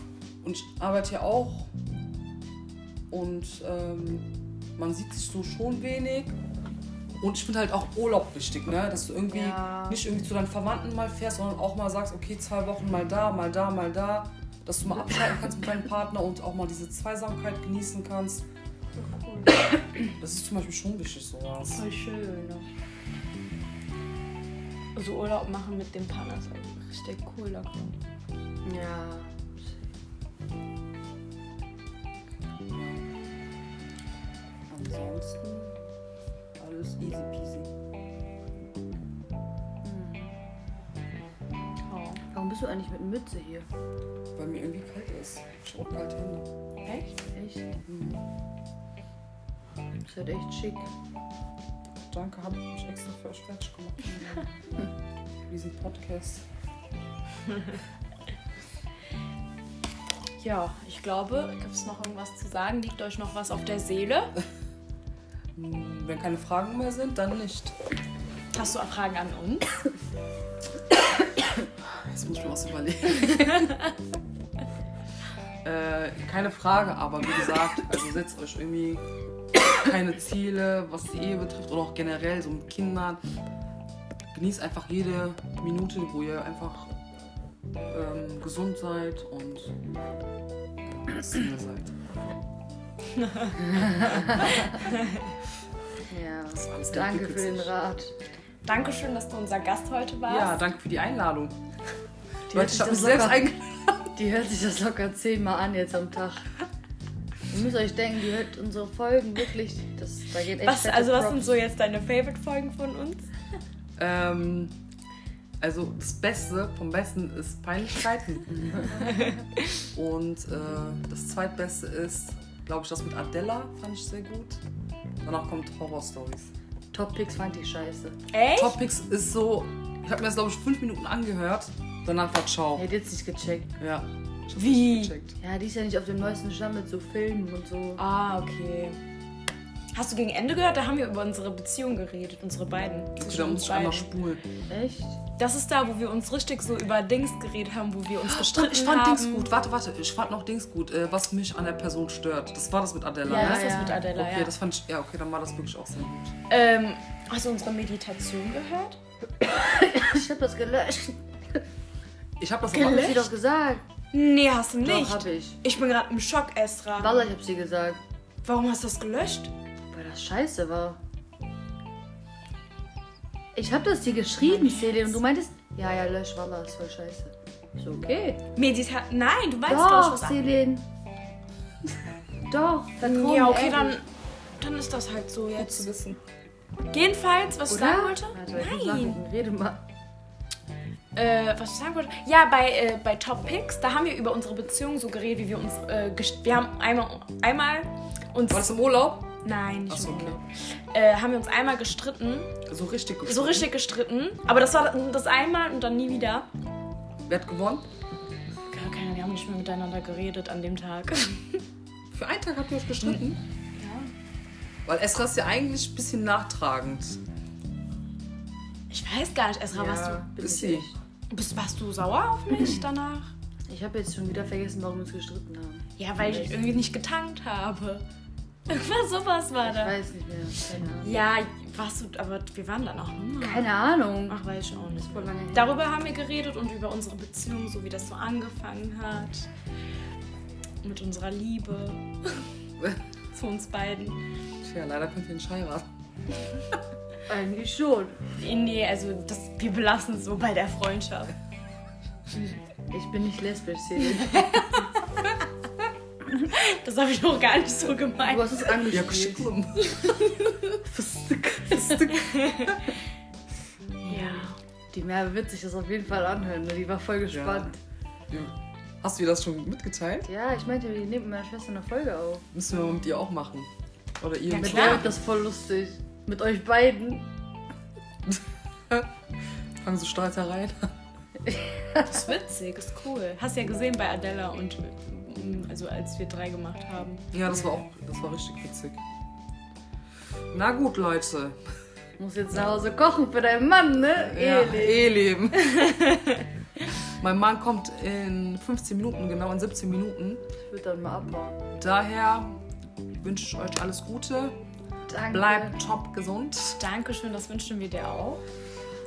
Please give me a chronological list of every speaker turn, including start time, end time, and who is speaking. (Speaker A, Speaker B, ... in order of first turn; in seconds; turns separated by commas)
Speaker A: 0.4-1.7, Speaker A: 3.1-6.4, Speaker A: 7.2-18.5, Speaker B: 9.3-10.0, Speaker C: 19.0-19.6, Speaker A: 20.2-21.8, Speaker C: 21.7-22.7, Speaker C: 25.0-27.9, Speaker B: 28.6-29.9, Speaker A: 32.7-33.1, Speaker A: 34.7-35.8, Speaker A: 36.6-37.7, Speaker B: 39.8-40.4, Speaker C: 41.9-42.2, Speaker B: 42.3-43.7, Speaker A: 44.4-46.5, Speaker C: 46.9-47.2, Speaker B: 47.3-47.8, Speaker A: 47.9-48.3, Speaker B: 50.0-50.9, Speaker A: 52.1-54.3, Speaker A: 55.5-56.5, Speaker C: 60.4-64.3, Speaker A: 65.5-67.8, Speaker C: 68.5-69.7, Speaker A: 71.8-73.8, Speaker A: 75.6-79.0, Speaker A: 79.7-83.2, Speaker A: 84.3-86.9, Speaker A: 87.9-89.7, Speaker A: 90.8-91.9, Speaker C: 93.2-93.5, Speaker B: 93.6-94.8, Speaker A: 94.0-94.7, Speaker C: 94.9-95.1, Speaker B: 96.1-98.2, Speaker A: 96.6-97.7, Speaker C: 98.7-100.6, Speaker A: 100.3-101.6, Speaker B: 102.5-103.5, Speaker A: 102.5-104.1, Speaker B: 104.2-106.5, Speaker B: 107.5-111.5, Speaker C: 110.6-113.3, Speaker A: 114.0-114.7, Speaker A: 115.6-118.5, Speaker B: 118.5-119.3, Speaker C: 119.0-119.9, Speaker A: 119.9-124.6, Speaker A: 125.2-126.5, Speaker B: 126.9-128.2, Speaker C: 128.3-128.8, Speaker A: 128.5-132.9, Speaker B: 132.8-133.7, Speaker A: 133.8-135.4, Speaker C: 134.6-135.1, Speaker B: 135.4-138.0, Speaker C: 138.0-139.0, Speaker C: 139.9-144.1, Speaker A: 143.2-144.4, Speaker B: 144.7-145.2, Speaker C: 145.4-149.5, Speaker A: 148.2-156.4, Speaker C: 153.3-154.5, Speaker B: 153.3-154.0, Speaker C: 156.5-159.0, Speaker B: 159.4-161.6, Speaker A: 162.4-163.3, Speaker B: 162.7-163.8, Speaker C: 162.7-163.2, Speaker C: 164.1-167.2, Speaker B: 164.8-165.6, Speaker B: 167.0-168.0, Speaker C: 168.4-169.5, Speaker B: 169.9-171.0, Speaker B: 173.6-178.4, Speaker C: 174.4-175.2, Speaker C: 178.6-180.4, Speaker B: 179.7-180.8, Speaker B: 182.5-184.0, Speaker C: 183.0-184.1, Speaker C: 184.6-185.9, Speaker A: 185.6-186.2, Speaker C: 186.9-189.2, Speaker B: 187.7-189.8, Speaker C: 191.2-198.7, Speaker A: 198.5-199.3, Speaker C: 199.4-202.6, Speaker A: 199.9-200.4, Speaker A: 202.7-203.7, Speaker C: 203.3-206.5, Speaker A: 207.3-207.9, Speaker C: 208.7-211.6, Speaker A: 212.1-213.4, Speaker C: 213.8-214.1, Speaker A: 214.9-217.2, Speaker C: 218.9-220.3, Speaker B: 219.7-221.0, Speaker A: 220.4-220.9, Speaker C: 221.3-223.3, Speaker B: 223.7-226.7, Speaker C: 226.0-228.1, Speaker C: 228.7-229.9, Speaker B: 229.6-231.1, Speaker C: 231.0-233.7, Speaker B: 233.4-234.4, Speaker C: 234.3-239.5, Speaker B: 235.0-235.8, Speaker C: 240.8-242.5, Speaker C: 243.3-244.2, Speaker A: 244.6-245.9, Speaker B: 247.3-248.2, Speaker C: 248.4-251.3, Speaker B: 252.9-254.7, Speaker C: 254.1-255.3, Speaker C: 256.4-258.8, Speaker B: 258.2-259.5, Speaker A: 258.9-260.2, Speaker C: 260.0-260.4, Speaker B: 260.8-262.3, Speaker C: 262.1-262.9, Speaker C: 264.1-264.6, Speaker B: 264.1-267.8, Speaker A: 267.3-267.7, Speaker A: 268.3-270.3, Speaker B: 270.2-272.4, Speaker A: 272.5-275.2, Speaker C: 274.5-275.1, Speaker B: 274.6-277.3, Speaker A: 278.3-279.1, Speaker A: 279.8-280.9, Speaker C: 282.0-287.3, Speaker A: 287.3-289.0, Speaker A: 290.5-291.6, Speaker B: 292.2-295.2, Speaker A: 294.2-295.9, Speaker C: 295.6-296.5, Speaker A: 297.1-300.4, Speaker B: 300.6-301.6, Speaker A: 301.8-302.6, Speaker A: 303.2-304.6, Speaker B: 305.1-305.8, Speaker A: 305.3-306.8, Speaker C: 306.8-308.4